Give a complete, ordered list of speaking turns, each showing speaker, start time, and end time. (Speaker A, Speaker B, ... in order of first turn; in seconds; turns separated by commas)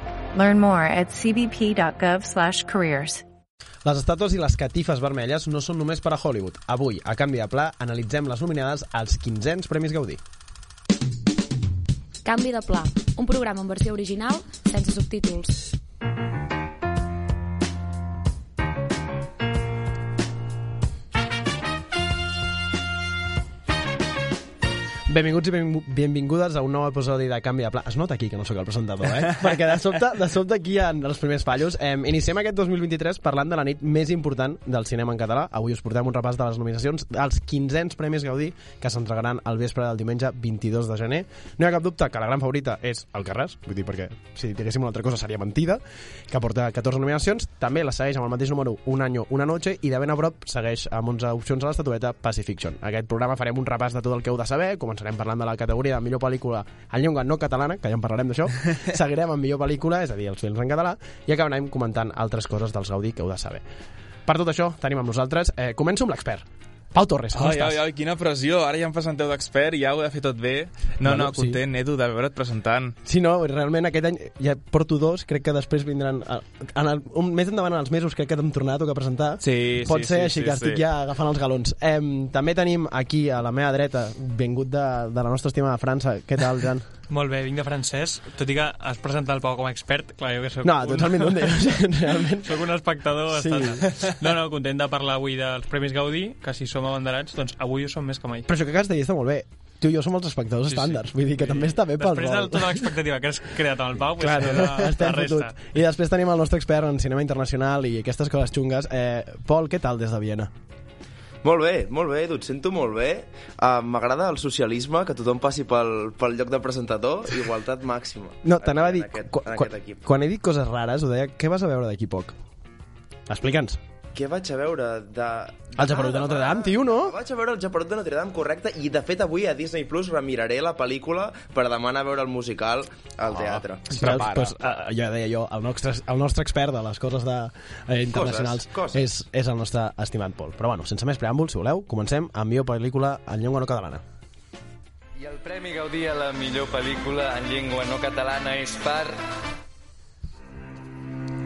Speaker A: 0.3-3.2, Speaker B: 3.8-10.2, Speaker C: 12.2-15.6, Speaker B: 25.1-63.6, Speaker B: 64.2-67.8, Speaker D: 67.3-73.0, Speaker B: 71.0-71.6, Speaker B: 73.0-86.8, Speaker D: 79.4-80.8, Speaker E: 87.1-98.5, Speaker B: 90.6-92.6, Speaker B: 93.3-93.8, Speaker B: 98.5-102.8, Speaker E: 100.9-105.6, Speaker B: 104.2-110.5, Speaker F: 111.4-120.0, Speaker B: 118.4-122.3, Speaker B: 123.3-123.8, Speaker F: 124.1-134.2, Speaker B: 125.8-127.2, Speaker D: 133.9-134.6, Speaker B: 133.9-144.0, Speaker F: 138.1-139.1, Speaker G: 145.2-149.2